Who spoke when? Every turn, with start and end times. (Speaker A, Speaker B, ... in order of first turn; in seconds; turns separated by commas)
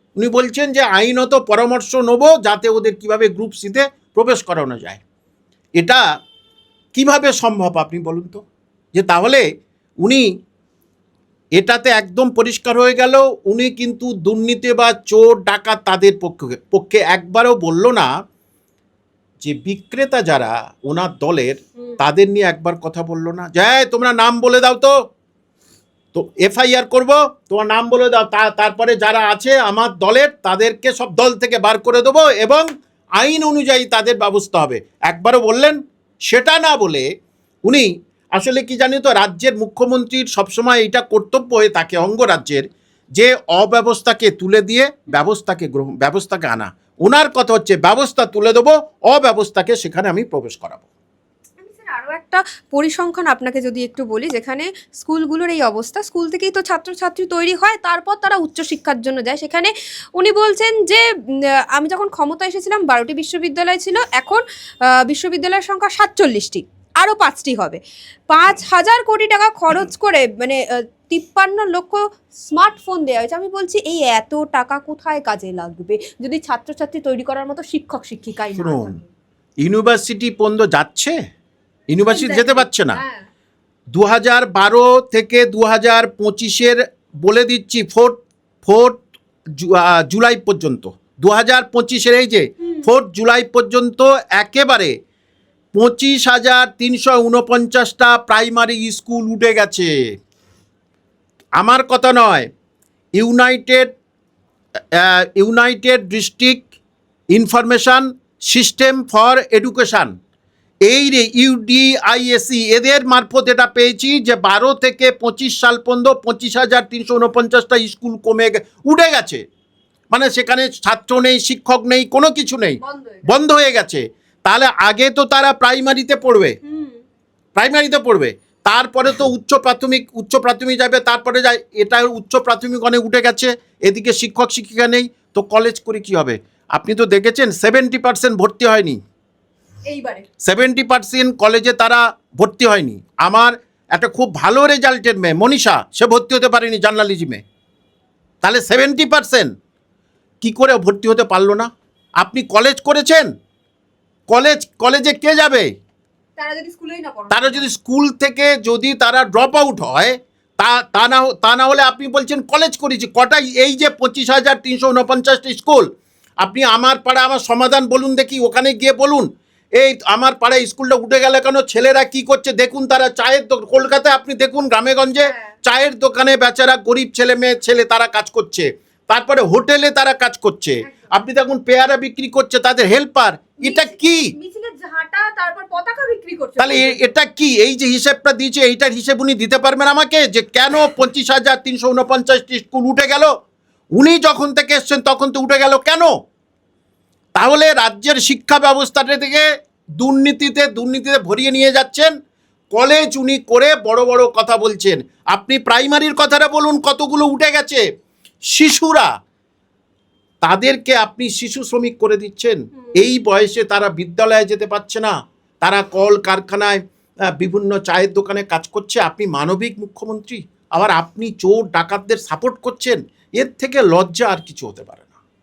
Speaker A: 0.2-5.0, Speaker A: 6.9-8.4, Speaker A: 8.9-9.4, Speaker A: 10.0-10.3, Speaker A: 11.6-18.1, Speaker A: 19.4-24.9, Speaker A: 26.1-32.7, Speaker A: 33.2-35.8, Speaker A: 36.3-37.1, Speaker A: 37.6-42.6, Speaker A: 43.1-50.9, Speaker B: 51.6-79.1, Speaker A: 78.6-79.0, Speaker A: 79.6-81.2, Speaker A: 81.9-83.0, Speaker B: 82.1-83.2, Speaker A: 83.9-89.0, Speaker A: 89.6-94.9, Speaker B: 92.6-92.9, Speaker A: 95.7-99.9, Speaker A: 101.6-102.5, Speaker A: 103.2-103.9, Speaker A: 104.9-106.7, Speaker A: 107.3-110.1, Speaker A: 110.8-119.4, Speaker A: 120.1-126.5, Speaker B: 122.8-123.3, Speaker B: 126.6-127.0, Speaker A: 127.5-139.0, Speaker B: 139.9-140.2, Speaker A: 140.4-147.4, Speaker A: 148.4-149.5, Speaker A: 150.4-153.3, Speaker A: 154.3-155.7, Speaker B: 156.4-157.7, Speaker A: 157.3-165.9, Speaker A: 166.4-169.3, Speaker A: 169.8-184.3, Speaker B: 175.2-175.5, Speaker B: 180.8-181.1, Speaker B: 183.6-187.1, Speaker A: 186.6-193.3, Speaker A: 193.9-196.1, Speaker A: 197.3-199.4, Speaker A: 200.0-202.1, Speaker A: 202.7-207.8, Speaker A: 208.5-209.1, Speaker A: 210.4-216.8, Speaker A: 217.4-225.2